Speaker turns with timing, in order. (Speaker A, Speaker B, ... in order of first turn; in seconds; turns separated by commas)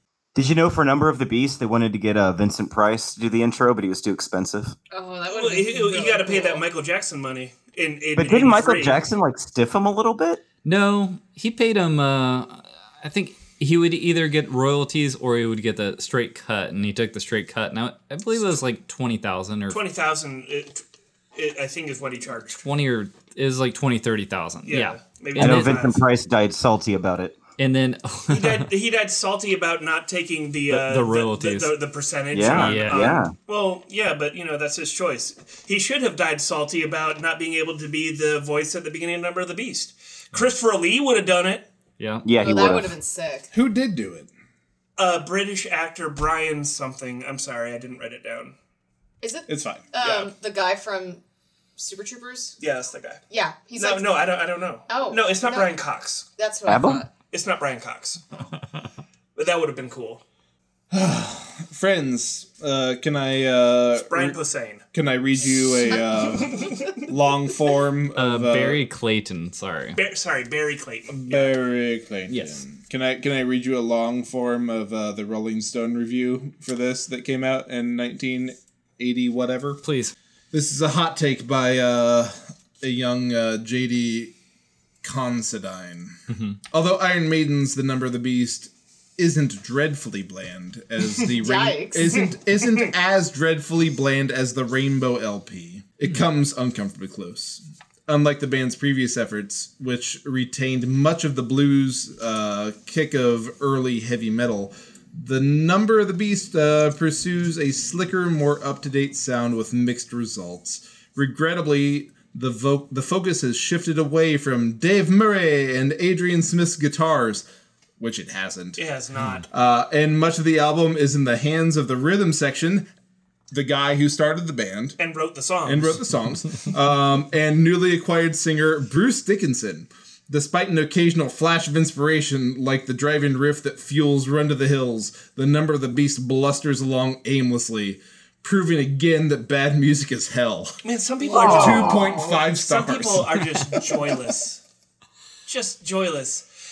Speaker A: 0.3-4.8, Speaker B: 4.9-6.7, Speaker C: 5.3-9.0, Speaker A: 8.2-10.4, Speaker D: 10.7-19.8, Speaker C: 19.7-22.6, Speaker D: 22.6-25.8, Speaker C: 24.7-26.0, Speaker A: 25.4-27.4, Speaker D: 27.6-28.7, Speaker C: 28.3-41.7, Speaker D: 30.7-31.8, Speaker A: 32.3-33.3, Speaker D: 32.4-33.2, Speaker D: 42.0-42.3, Speaker A: 42.2-42.9, Speaker B: 42.4-43.5, Speaker E: 43.5-44.3, Speaker C: 45.0-48.5, Speaker B: 49.2-51.2, Speaker E: 49.5-49.9, Speaker C: 50.0-50.3, Speaker B: 51.8-52.6, Speaker C: 52.6-53.2, Speaker B: 53.3-54.3, Speaker C: 53.8-56.3, Speaker B: 54.9-55.7, Speaker B: 56.4-57.1, Speaker A: 56.7-57.0, Speaker C: 57.3-58.2, Speaker C: 59.4-60.2, Speaker E: 60.9-64.4, Speaker C: 63.9-64.8, Speaker E: 64.9-68.8, Speaker B: 65.9-66.2, Speaker C: 66.3-67.0, Speaker D: 68.2-70.0, Speaker C: 70.0-71.5, Speaker E: 71.1-79.8, Speaker D: 72.3-72.6, Speaker D: 79.8-80.1, Speaker E: 80.5-84.3, Speaker E: 85.0-86.2, Speaker D: 86.3-86.6, Speaker E: 86.7-117.4, Speaker B: 91.4-92.3, Speaker C: 92.6-92.9, Speaker E: 118.0-118.8, Speaker C: 118.8-119.5, Speaker E: 119.5-122.9, Speaker E: 123.5-125.0, Speaker C: 125.0-126.0, Speaker E: 125.7-140.8, Speaker C: 140.8-144.6, Speaker B: 141.2-142.1, Speaker A: 141.3-142.2, Speaker E: 141.5-143.3, Speaker C: 145.5-146.5